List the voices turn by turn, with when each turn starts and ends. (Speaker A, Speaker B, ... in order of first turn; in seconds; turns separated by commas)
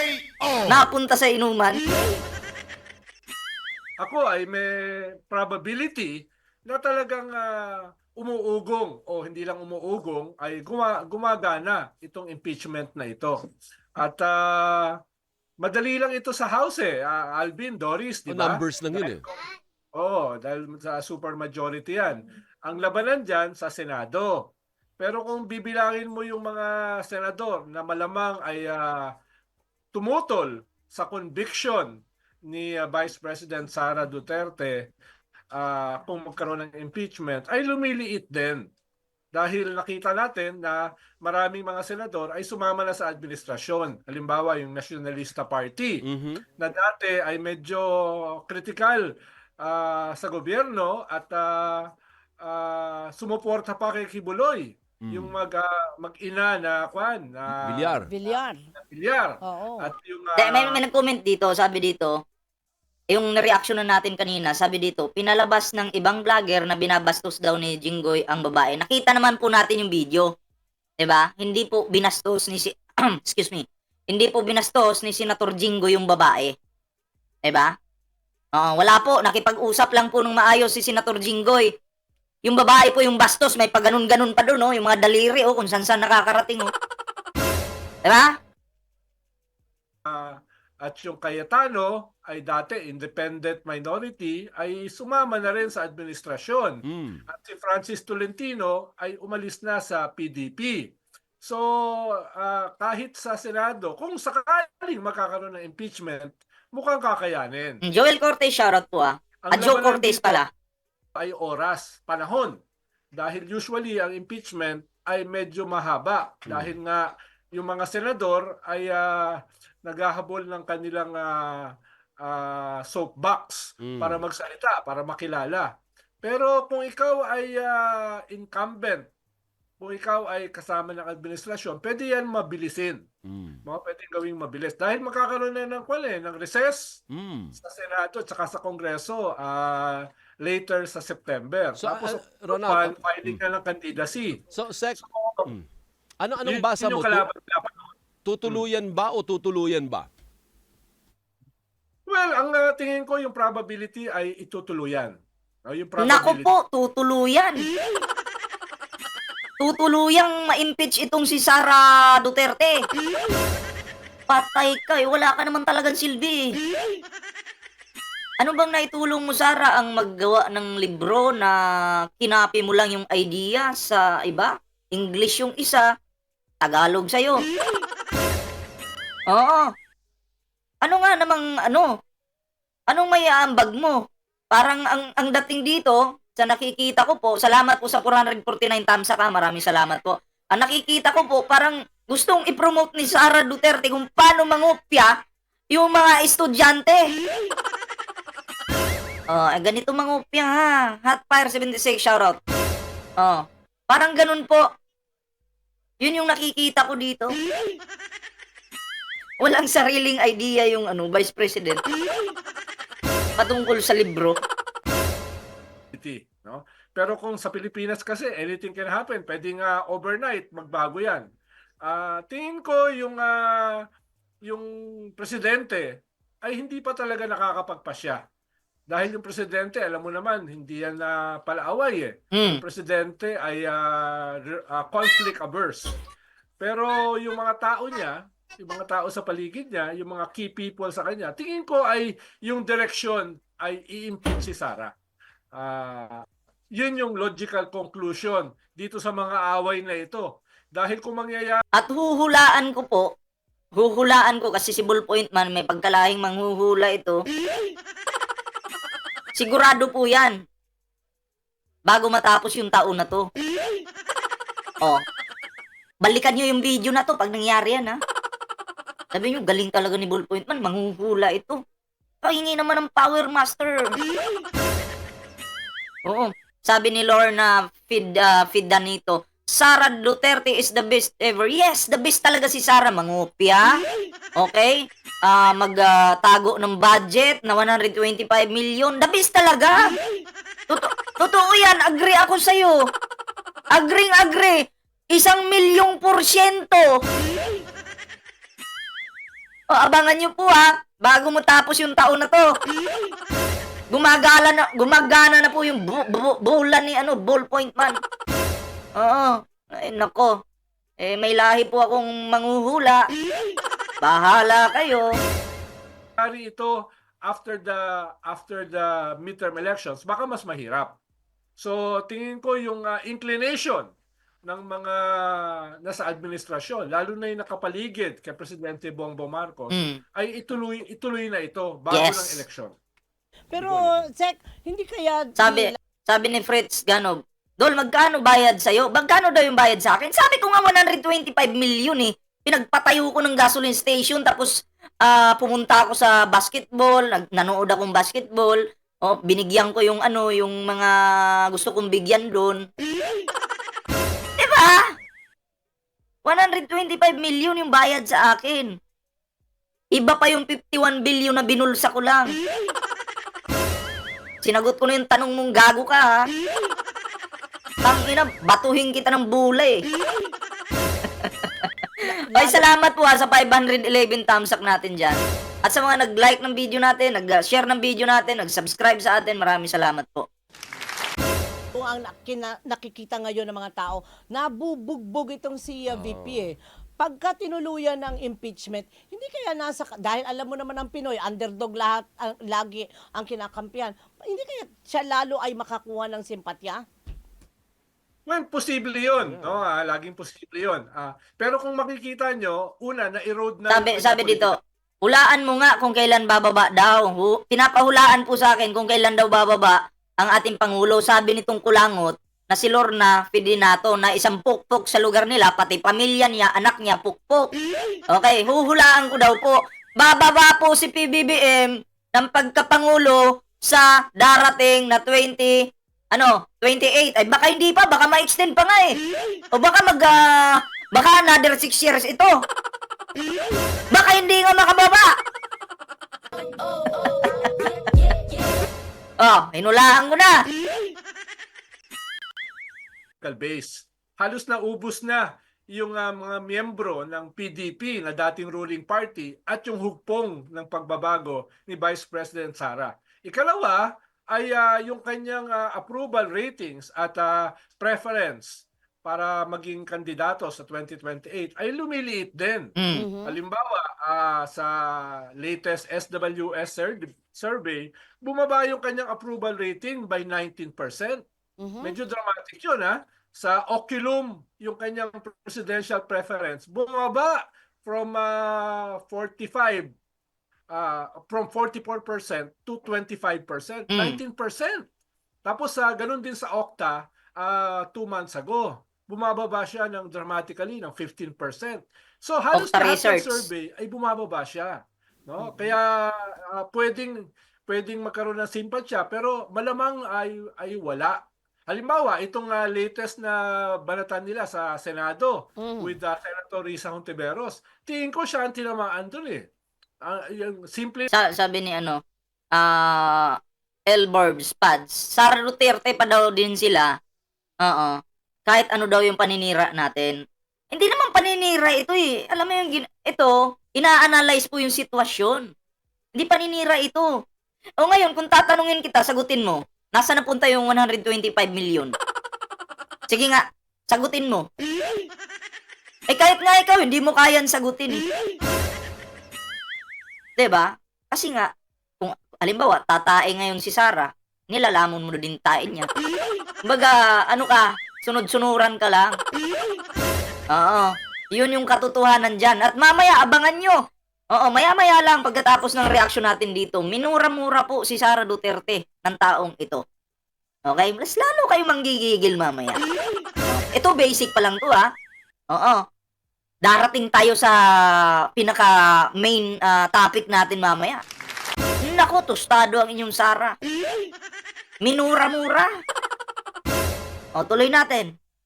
Speaker A: 0.7-1.8, Speaker B: 4.0-4.7, Speaker B: 5.3-6.1, Speaker B: 6.7-13.4, Speaker B: 14.0-14.9, Speaker B: 15.6-19.2, Speaker C: 18.3-19.2, Speaker B: 19.9-29.1, Speaker B: 29.9-34.9, Speaker B: 35.5-38.7, Speaker B: 39.3-46.0, Speaker C: 46.0-46.5, Speaker B: 46.6-58.0, Speaker C: 55.0-55.4, Speaker C: 57.5-58.1, Speaker D: 58.1-58.7, Speaker B: 58.8-60.8, Speaker D: 59.4-59.9, Speaker A: 60.4-62.2, Speaker A: 63.1-70.3, Speaker A: 71.0-76.6, Speaker A: 77.5-77.7, Speaker A: 78.5-81.7, Speaker A: 82.5-86.7, Speaker A: 88.1-88.3, Speaker B: 90.0-107.8, Speaker C: 96.8-97.2, Speaker A: 107.8-110.5, Speaker B: 109.5-110.4, Speaker B: 111.2-112.6, Speaker B: 113.1-121.7, Speaker B: 122.2-125.7, Speaker C: 123.8-124.2, Speaker B: 126.2-129.1, Speaker B: 129.8-133.0, Speaker C: 133.2-133.6, Speaker B: 133.7-137.0, Speaker C: 137.1-137.6, Speaker B: 137.6-144.4, Speaker C: 141.8-143.4, Speaker C: 144.5-145.7, Speaker B: 145.0-145.6, Speaker C: 146.2-147.2, Speaker B: 146.4-148.6, Speaker C: 148.2-150.1, Speaker B: 152.1-156.5, Speaker A: 156.0-157.6, Speaker A: 159.6-162.8, Speaker A: 164.3-166.5, Speaker A: 168.4-171.6, Speaker A: 172.2-175.9, Speaker A: 176.6-177.4, Speaker A: 179.3-179.7, Speaker A: 180.8-181.9, Speaker A: 182.9-184.0, Speaker A: 184.5-195.1, Speaker A: 195.7-197.1, Speaker A: 199.3-202.4, Speaker A: 203.2-204.6, Speaker A: 206.0-207.3, Speaker A: 209.4-211.8, Speaker A: 213.4-214.4, Speaker B: 215.9-221.3, Speaker B: 221.8-223.8, Speaker B: 224.5-225.9, Speaker B: 226.4-228.2, Speaker B: 228.9-235.9, Speaker A: 232.3-232.6, Speaker B: 236.6-244.9, Speaker B: 245.5-246.2, Speaker B: 246.8-251.6, Speaker A: 251.8-253.1, Speaker A: 253.8-257.2, Speaker A: 259.4-260.4, Speaker A: 261.9-263.3, Speaker A: 266.0-268.0, Speaker A: 269.1-271.6, Speaker A: 272.2-273.9, Speaker A: 276.1-283.7, Speaker A: 284.4-289.9, Speaker A: 290.7-292.8, Speaker A: 293.8-296.9, Speaker A: 299.7-302.5, Speaker A: 303.9-308.0, Speaker A: 309.0-310.3, Speaker A: 311.0-313.1, Speaker A: 314.0-315.1, Speaker B: 316.2-321.0, Speaker B: 321.6-323.9, Speaker B: 324.5-332.8, Speaker A: 329.7-330.0, Speaker A: 331.9-332.4, Speaker D: 333.5-335.7, Speaker B: 333.6-334.0, Speaker A: 335.4-344.5, Speaker A: 345.0-352.6, Speaker A: 354.4-354.9, Speaker A: 356.2-358.7, Speaker A: 360.0-362.3, Speaker A: 364.4-366.3, Speaker A: 367.9-369.8, Speaker D: 372.1-372.7, Speaker A: 372.3-380.3, Speaker D: 381.7-396.8, Speaker C: 385.9-386.5, Speaker B: 398.3-404.6, Speaker A: 403.7-417.5, Speaker A: 418.1-425.6, Speaker A: 426.1-429.0, Speaker A: 429.5-432.3, Speaker A: 433.9-435.1, Speaker A: 437.2-437.7, Speaker A: 439.2-440.4, Speaker B: 443.2-462.7, Speaker A: 462.8-463.1, Speaker D: 463.0-463.4, Speaker B: 463.2-464.7, Speaker B: 465.4-471.2, Speaker D: 471.6-471.9, Speaker B: 471.8-479.9, Speaker B: 480.7-484.9, Speaker A: 483.9-484.2, Speaker B: 485.4-497.2, Speaker A: 492.6-493.5, Speaker D: 495.4-495.8, Speaker B: 497.7-501.2, Speaker B: 501.7-509.4, Speaker D: 505.6-505.9, Speaker B: 510.0-511.1, Speaker A: 511.1-512.0, Speaker A: 512.6-513.4, Speaker A: 513.9-516.9, Speaker A: 517.6-518.0, Speaker A: 518.5-520.1, Speaker A: 520.7-525.5, Speaker A: 526.2-527.1, Speaker A: 527.8-531.9, Speaker A: 533.1-534.5, Speaker A: 536.1-538.0, Speaker A: 540.4-545.9, Speaker A: 546.6-549.2, Speaker A: 550.5-553.8, Speaker A: 554.3-559.8, Speaker A: 560.7-562.8, Speaker A: 563.5-564.9, Speaker A: 565.5-565.8, Speaker A: 566.6-571.0, Speaker A: 571.8-573.5, Speaker A: 574.8-575.7, Speaker A: 577.4-578.1